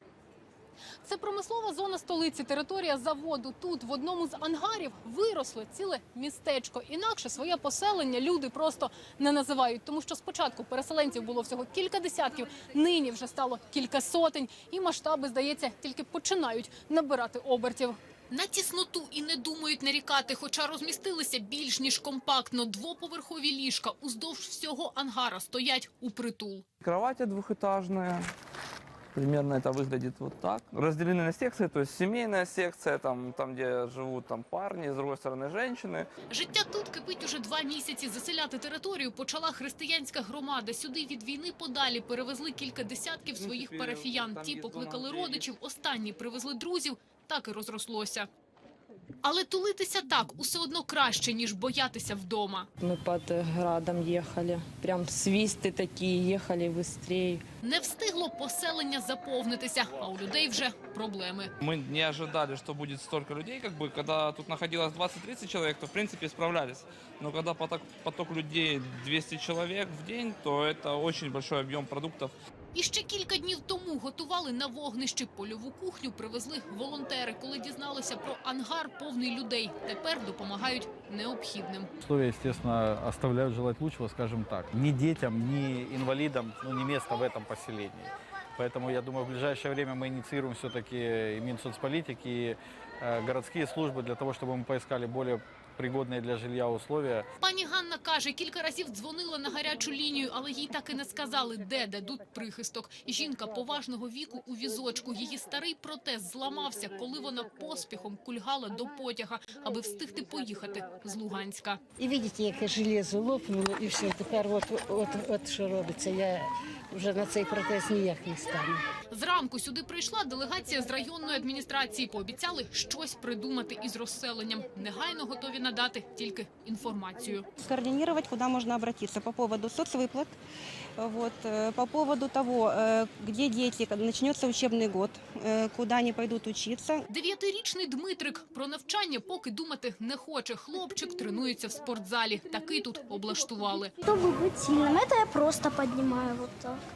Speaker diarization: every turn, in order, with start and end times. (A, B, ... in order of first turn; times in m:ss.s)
0:01.0-0:26.6 A
0:26.8-0:28.3 B
0:29.1-0:36.1 B
0:36.3-0:48.3 A
0:43.3-0:45.5 B
0:49.2-0:52.7 A
0:52.8-0:57.4 C
0:57.6-1:01.5 A
1:01.6-1:12.3 B
1:12.7-1:21.9 A
1:22.0-1:37.2 D
1:37.4-1:51.8 A
1:52.0-1:58.8 E
1:59.1-2:07.4 A
2:07.6-2:10.4 F
2:11.0-2:17.0 F
2:17.1-2:23.9 A
2:24.0-2:26.8 G